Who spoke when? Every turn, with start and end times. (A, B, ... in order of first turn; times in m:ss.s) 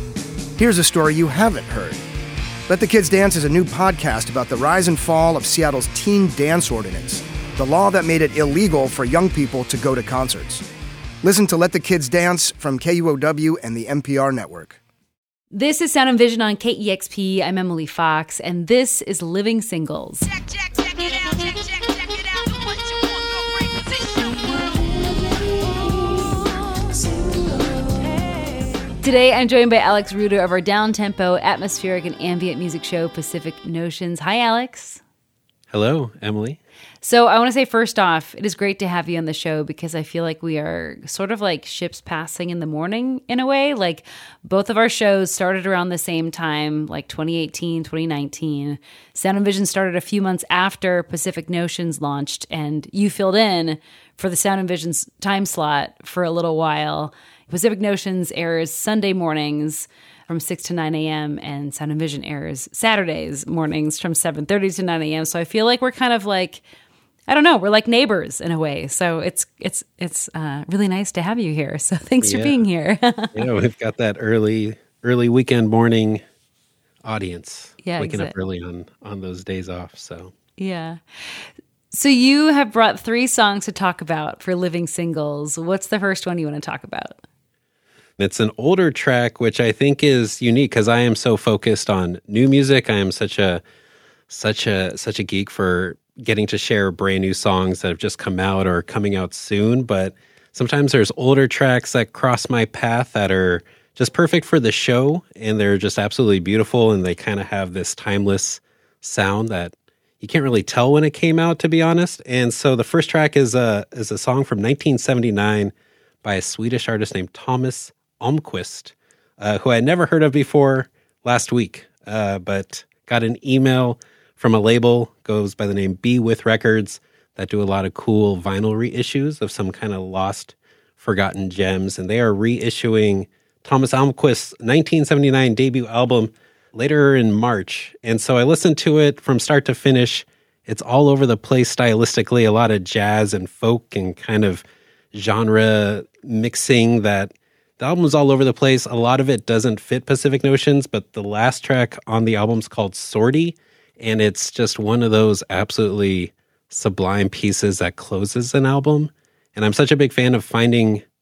0:00.6-0:02.0 A
0:02.7-0:10.6 A
0:11.2-0:14.8 A
0:15.5-0:20.4 B
0:21.0-0:21.3 B
0:23.8-0:28.1 B
0:29.0-0:35.0 B
0:35.7-0:36.6 C
0:37.0-1:06.6 B
1:07.3-1:13.5 B
1:12.2-1:12.5 C
1:13.3-1:16.2 C
1:17.0-1:20.3 C
1:17.8-1:18.3 B
1:20.6-1:21.0 B
1:21.9-1:27.2 B
1:28.2-1:33.6 C
1:34.3-1:55.7 C
1:56.2-2:41.0 C